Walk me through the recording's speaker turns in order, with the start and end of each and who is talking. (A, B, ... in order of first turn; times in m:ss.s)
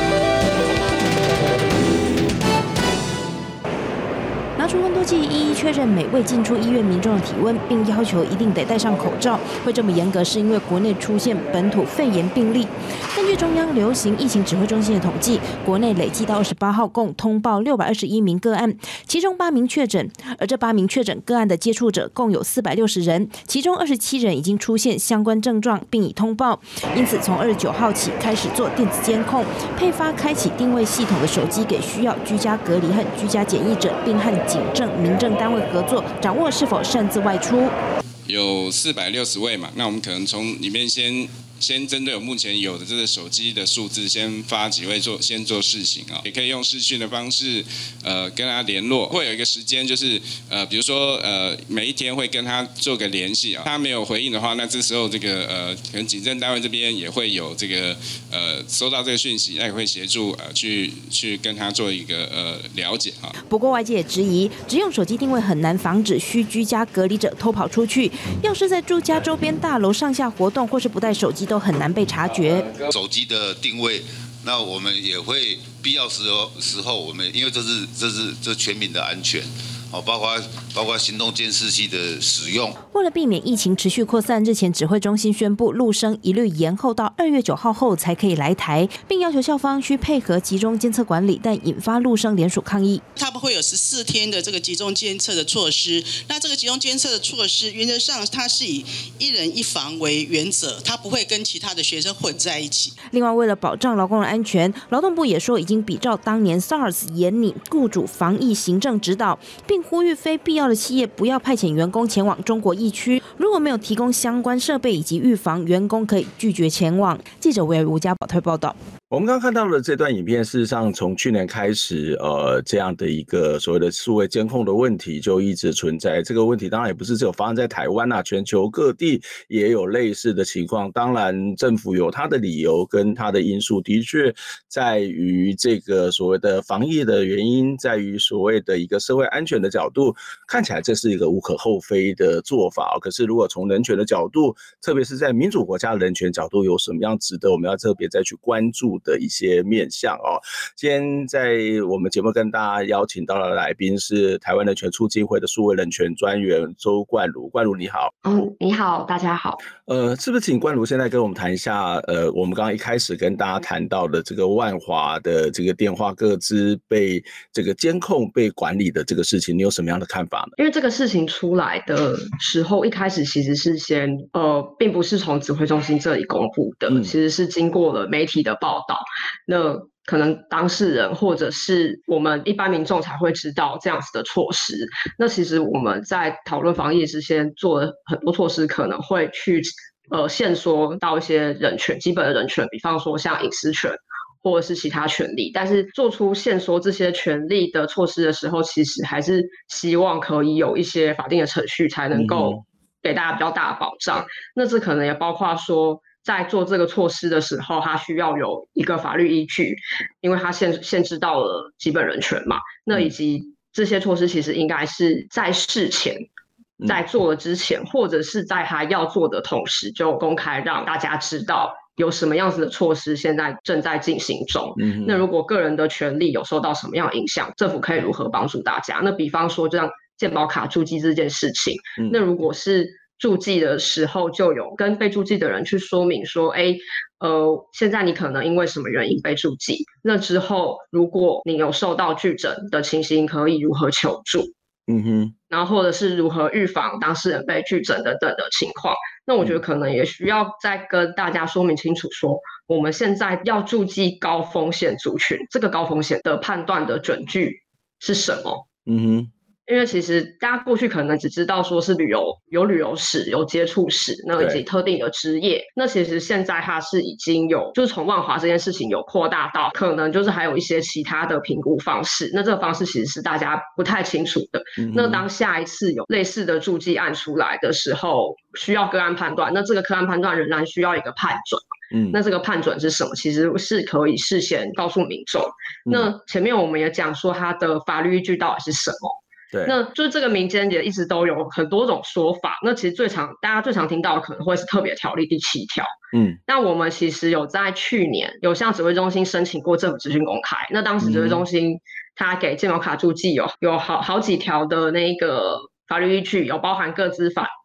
0:04.6-0:37.8 A
0:38.3-1:03.3 B
1:03.5-1:12.7 A
1:12.9-1:22.7 C
1:22.8-1:33.0 A
1:33.2-1:43.0 D
1:43.1-1:58.8 A
1:59.1-2:38.1 E
2:38.2-2:39.6 F
2:39.9-2:50.6 E
2:50.6-3:36.2 F
2:56.9-2:57.1 E
3:22.1-3:22.6 E
3:36.9-4:04.5 F
3:44.8-3:45.2 E
4:04.9-4:05.3 E
4:05.5-4:18.6 F
4:18.9-4:19.3 E
4:19.7-4:55.9 F
4:34.8-4:35.2 E
4:41.9-4:42.2 E
4:56.1-4:56.4 E
4:56.5-5:07.5 F
5:01.0-5:01.4 E